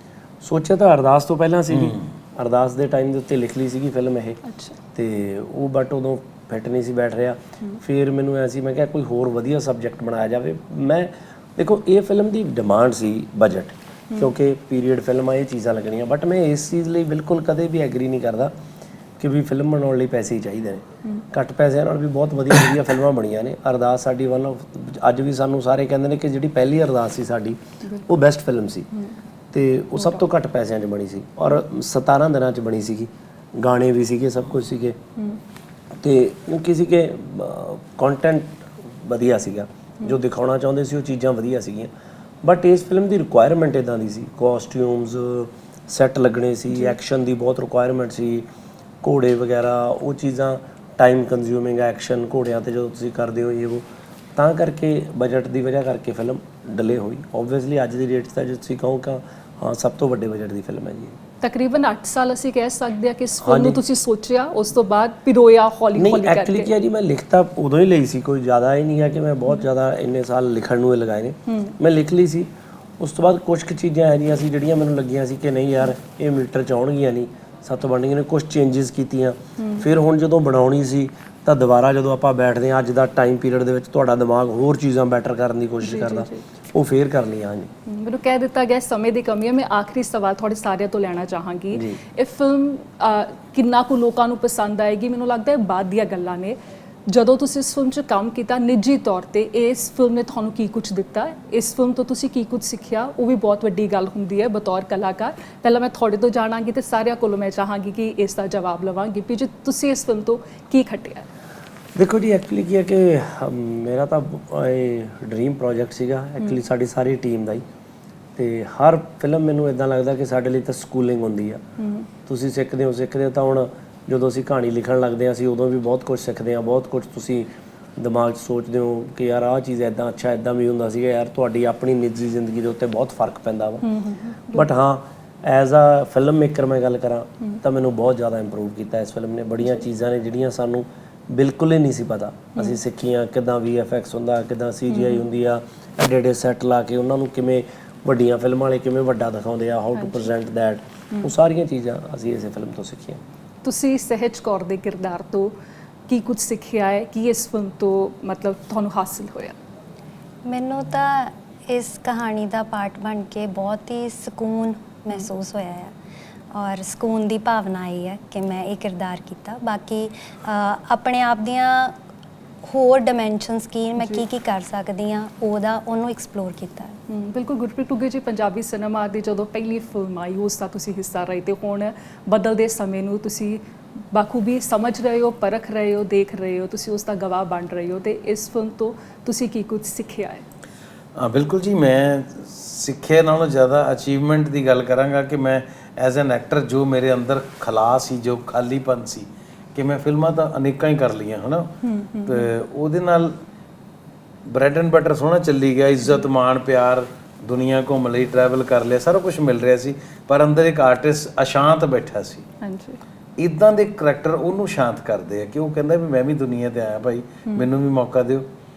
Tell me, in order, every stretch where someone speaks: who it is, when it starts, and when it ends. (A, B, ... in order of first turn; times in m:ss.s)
0:00.4-0:04.4 A
0:04.5-0:04.8 B
0:05.0-0:18.5 A
0:19.2-0:28.9 A
0:29.5-0:35.0 A
0:36.0-0:41.9 A
0:42.4-0:48.5 A
0:49.0-0:53.8 A
0:54.4-1:01.2 A
1:01.4-1:06.7 B
1:03.4-1:03.8 A
1:06.0-1:27.7 A
1:11.5-1:11.7 B
1:19.6-1:19.9 B
1:25.8-1:26.4 B
1:27.9-1:51.3 B
1:31.7-1:32.0 A
1:52.0-1:57.6 A
1:58.4-2:01.6 A
2:01.8-2:02.1 B
2:02.3-2:13.9 A
2:13.8-2:14.7 B
2:14.5-2:33.2 A
2:24.9-2:25.2 B
2:30.0-2:30.3 B
2:33.6-2:35.5 B
2:36.1-2:39.6 B
2:40.5-2:45.9 C
2:46.5-2:51.9 C
2:52.6-2:57.0 C
2:57.1-3:10.4 B
3:11.2-3:21.7 D
3:21.8-3:22.5 B
3:22.3-3:23.4 D
3:24.5-3:32.5 D
3:32.6-3:33.0 B
3:33.4-3:38.5 D